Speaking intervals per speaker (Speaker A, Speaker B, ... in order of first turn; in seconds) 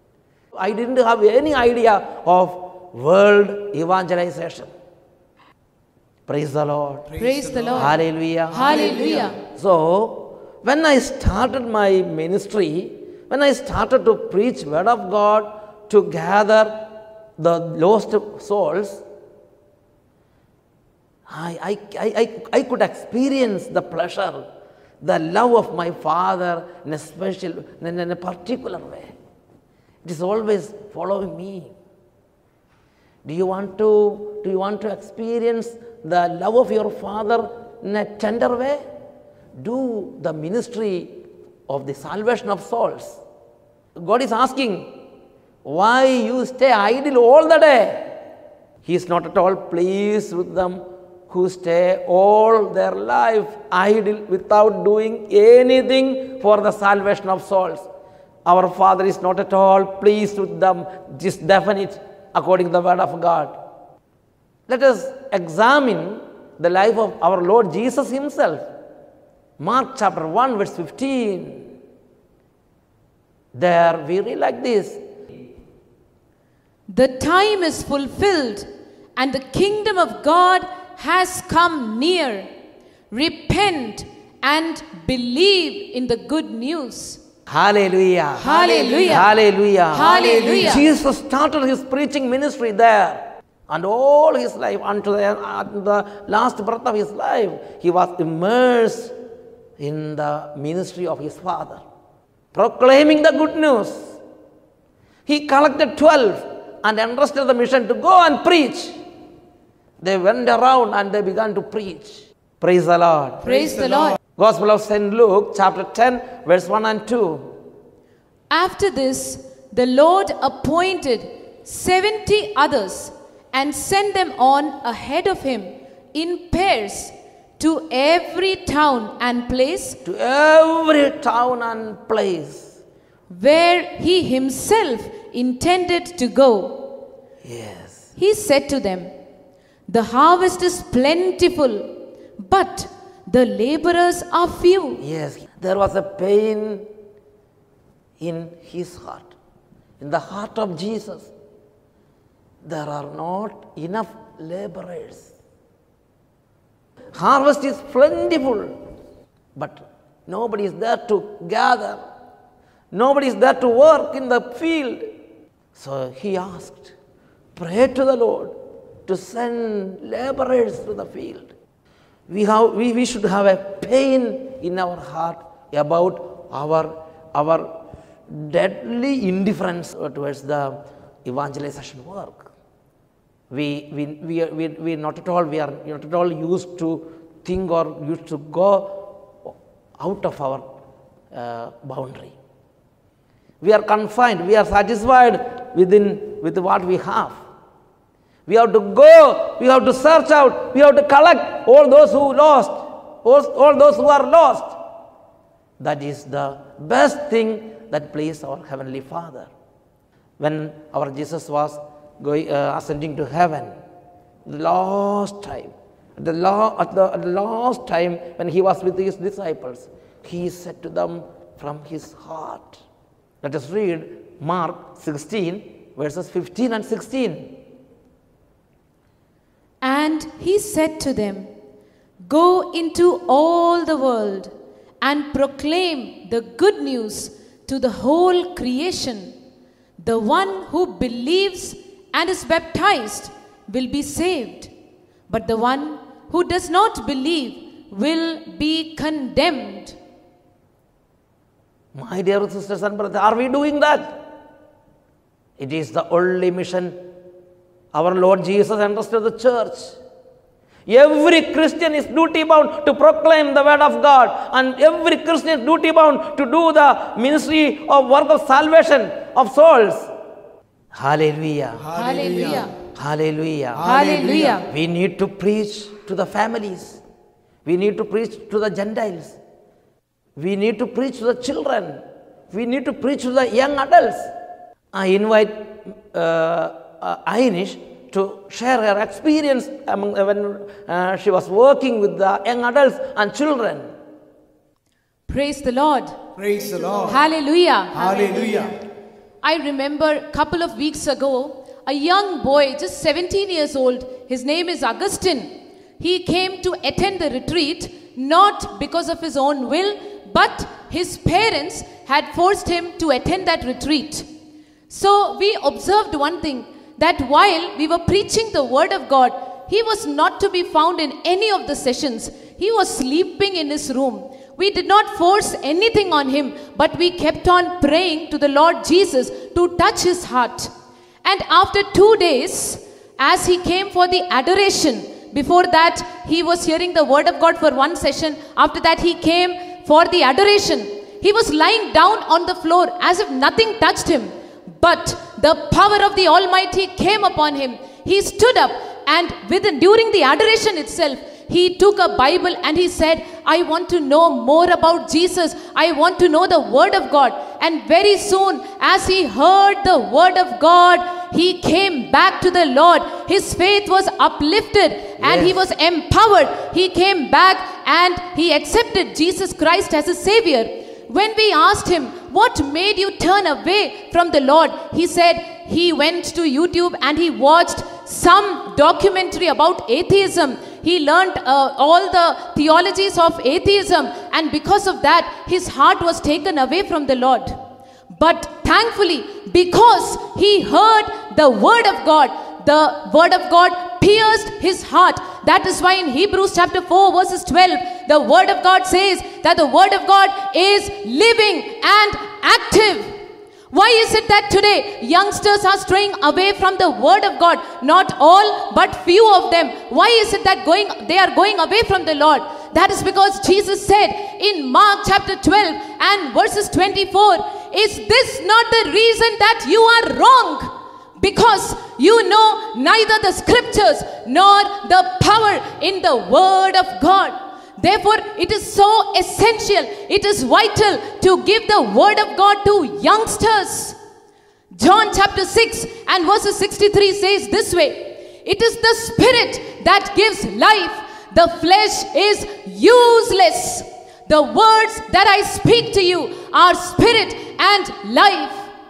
Speaker A: 0.6-4.7, 6.3-7.1, 7.7-16.9, 17.4-19.0, 21.3-24.4, 25.0-29.1, 30.0-31.7, 33.2-38.8, 39.6-43.2, 44.0-45.0, 45.6-48.1, 48.8-57.9, 58.5-63.6, 64.7-68.7, 69.6-71.7, 73.5-75.0, 87.5-88.5, 89.0-99.2, 99.8-101.8, 102.5-104.2, 105.3-109.0, 110.0-113.5, 114.4-117.5, 130.1-132.8, 137.4-138.1, 145.0-146.9, 148.2-149.3, 150.0-151.3, 152.6-155.3, 157.1-158.8, 159.6-162.0, 162.9-165.1, 165.8-166.9, 167.6-171.5, 172.3-177.7, 178.3-182.5, 183.5-190.7, 191.3-192.3, 193.6-197.4, 198.5-204.8, 205.8-209.5, 210.4-213.8, 214.5-222.8, 223.4-227.6, 251.9-254.2, 255.6-257.0, 257.9-260.0, 260.9-270.1, 270.9-271.9, 272.9-273.9, 274.6-277.0, 277.6-279.4, 280.4-284.3, 284.9-293.9, 365.2-365.6
Speaker B: 7.1-8.0, 8.5-9.3, 88.4-89.2, 89.9-90.8, 113.5-114.1, 271.8-272.7, 273.8-274.6, 296.4-297.2, 297.9-298.8
Speaker C: 7.2-8.0, 8.5-9.4, 76.9-82.5, 83.1-87.2, 88.4-89.3, 89.9-90.8, 113.4-114.2, 118.5-130.0, 133.3-136.9, 138.2-139.1, 139.9-145.0, 229.8-231.5, 232.2-239.3, 240.0-244.7, 245.3-250.0, 271.9-272.7, 273.8-274.7, 295.3-296.2, 297.1-298.8, 299.4-314.3, 314.9-330.7, 331.2-387.6, 388.1-403.1, 403.7-434.0, 434.7-448.7